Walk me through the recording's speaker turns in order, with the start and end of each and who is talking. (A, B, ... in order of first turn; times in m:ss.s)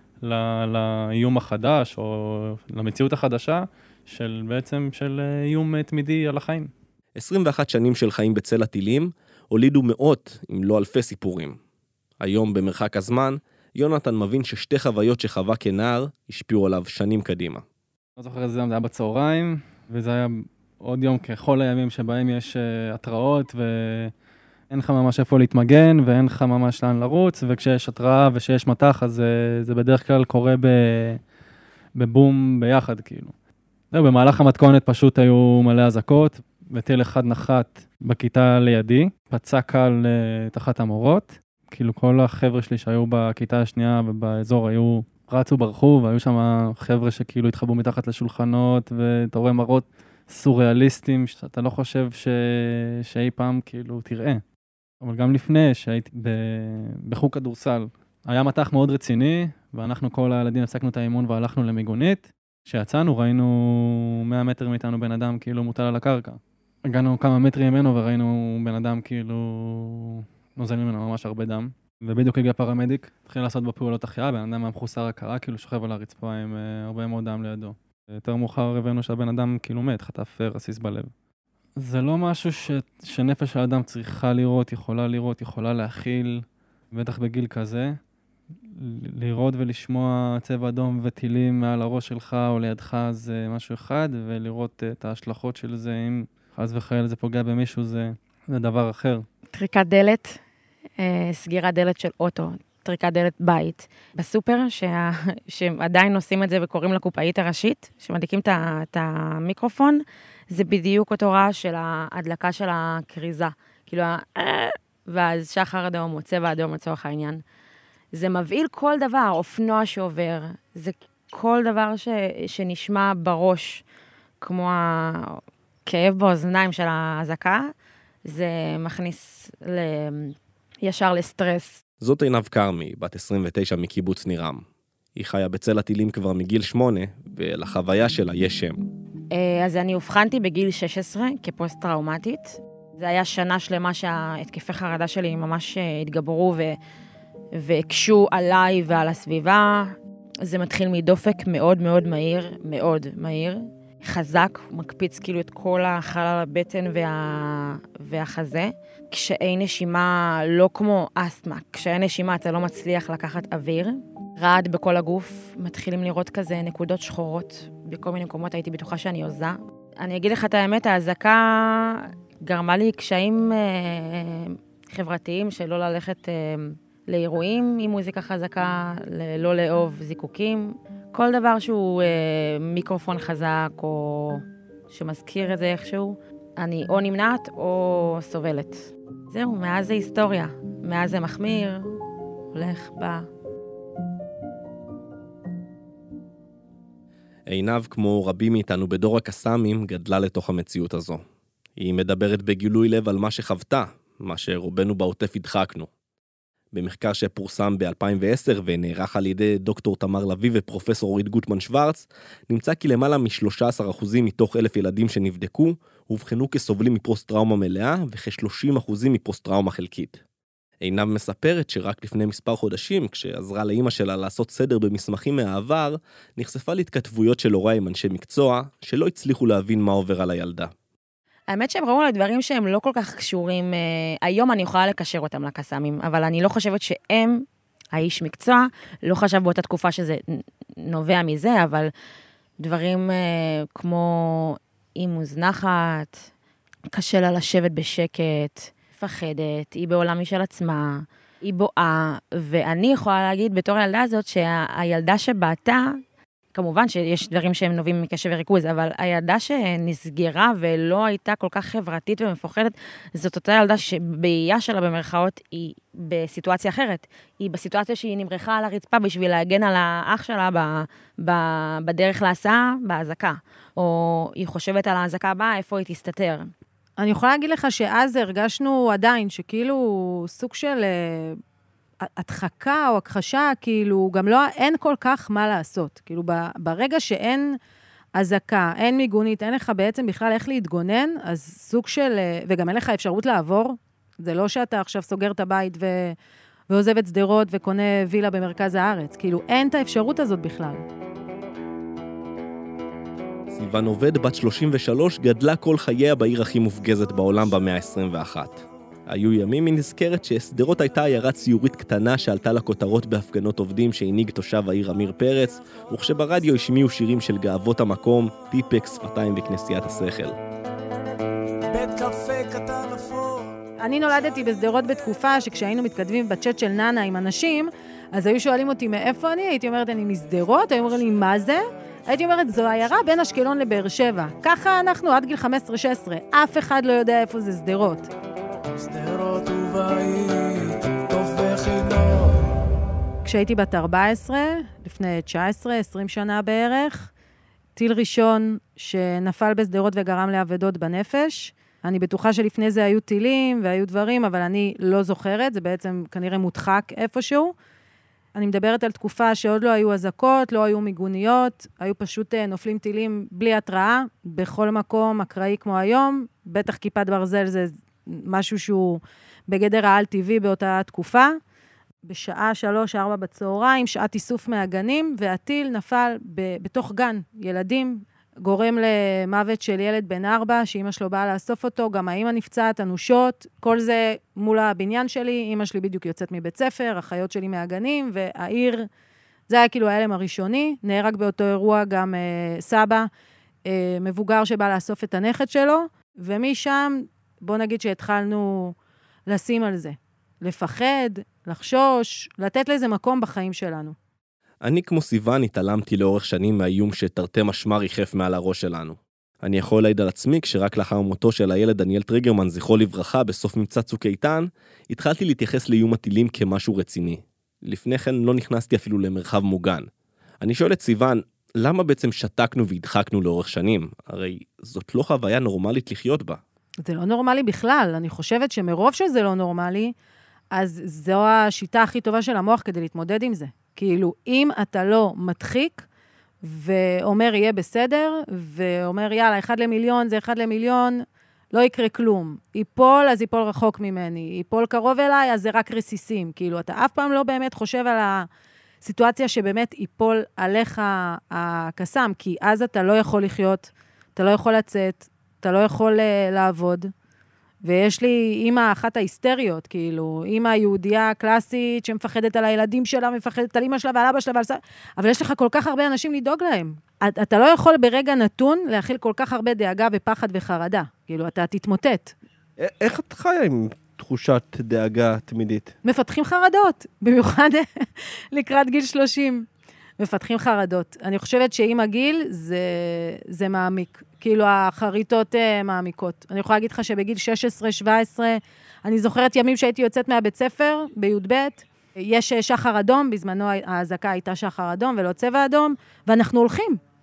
0:00.2-0:06.7 A
0:07.2-0:11.6 B
0:12.2-0:17.6 B
0:18.2-0:24.1 A
0:24.7-0:31.2 A
0:32.0-0:33.3 A
0:33.9-0:54.4 A
0:55.0-1:21.1 A
1:21.8-1:28.0 A
1:28.7-1:39.3 A
1:39.5-1:40.4 C
1:41.0-1:57.4 C
1:58.1-2:03.8 C
2:04.4-2:07.7 C
2:08.2-2:11.8 C
2:12.0-2:14.6 B
2:15.2-2:18.8 B
2:19.3-2:26.8 C
2:27.6-2:29.9 C
2:30.4-3:12.0 C
3:12.5-3:13.3 C
3:17.5-3:21.2 B
3:21.8-3:25.9 B
3:26.7-3:40.2 B
3:40.8-3:50.7 B
3:51.5-4:01.9 C
4:02.6-4:06.2 C
4:06.9-4:16.0 C
4:16.5-4:36.5 C
4:37.0-4:41.4 D
4:42.1-4:47.6 D
4:48.2-4:56.2 D
4:56.7-5:00.8 D
5:03.5-5:20.4 B
5:21.7-5:23.6 E
5:23.8-5:38.1 D
5:38.8-5:42.4 E
5:43.2-5:47.1 D
5:47.8-5:57.5 D
5:58.4-6:11.3 D
6:12.1-6:28.9 D
6:29.5-6:33.1 D
6:33.7-6:38.8 D
6:39.3-6:44.0 D
6:44.6-6:59.9 B
7:00.4-7:06.4 B
7:06.8-7:09.9 D
7:10.5-7:15.8 D
7:16.4-7:28.3 D
7:28.8-7:36.9 D
7:37.6-7:52.1 D
7:52.6-7:55.8 B
7:55.8-7:59.4 D
8:00.0-8:16.8 D